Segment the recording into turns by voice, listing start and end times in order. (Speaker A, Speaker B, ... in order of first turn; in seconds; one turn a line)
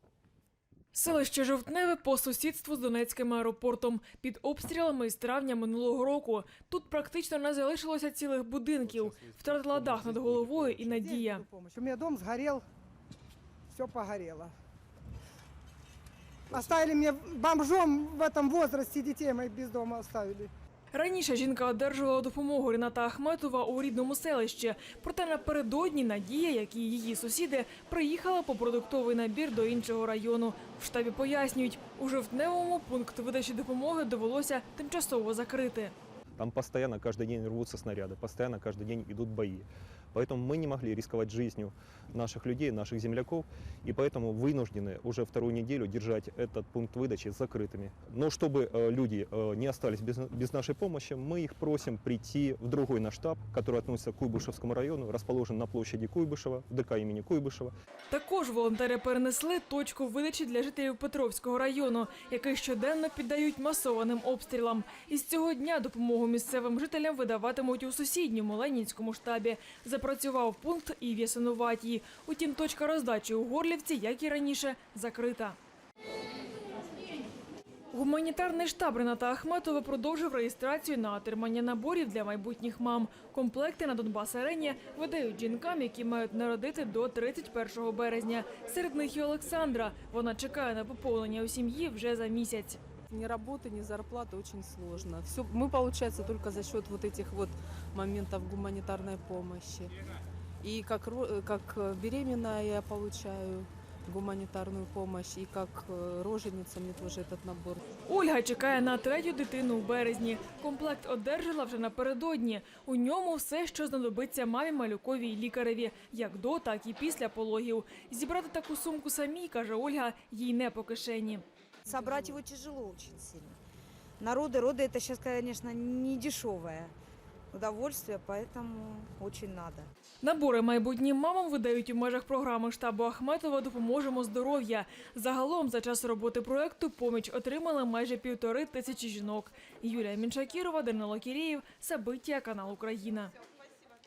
Speaker A: 0.9-11.4
Speaker B: 8.8-10.9
Speaker C: 10.9-12.6
Speaker C: 13.7-14.5
Speaker C: 16.5-20.5
Speaker A: 20.9-35.9
Speaker B: 36.4-57.7
Speaker A: 58.1-75.6
Speaker A: 77.9-92.8
Speaker D: 93.1-99.9
Speaker D: 100.6-107.8
Speaker A: 108.0-121.4
Speaker E: 121.9-123.6
Speaker D: 121.9-122.4
Speaker E: 124.2-126.9
Speaker E: 127.5-129.9
Speaker A: 130.2-143.3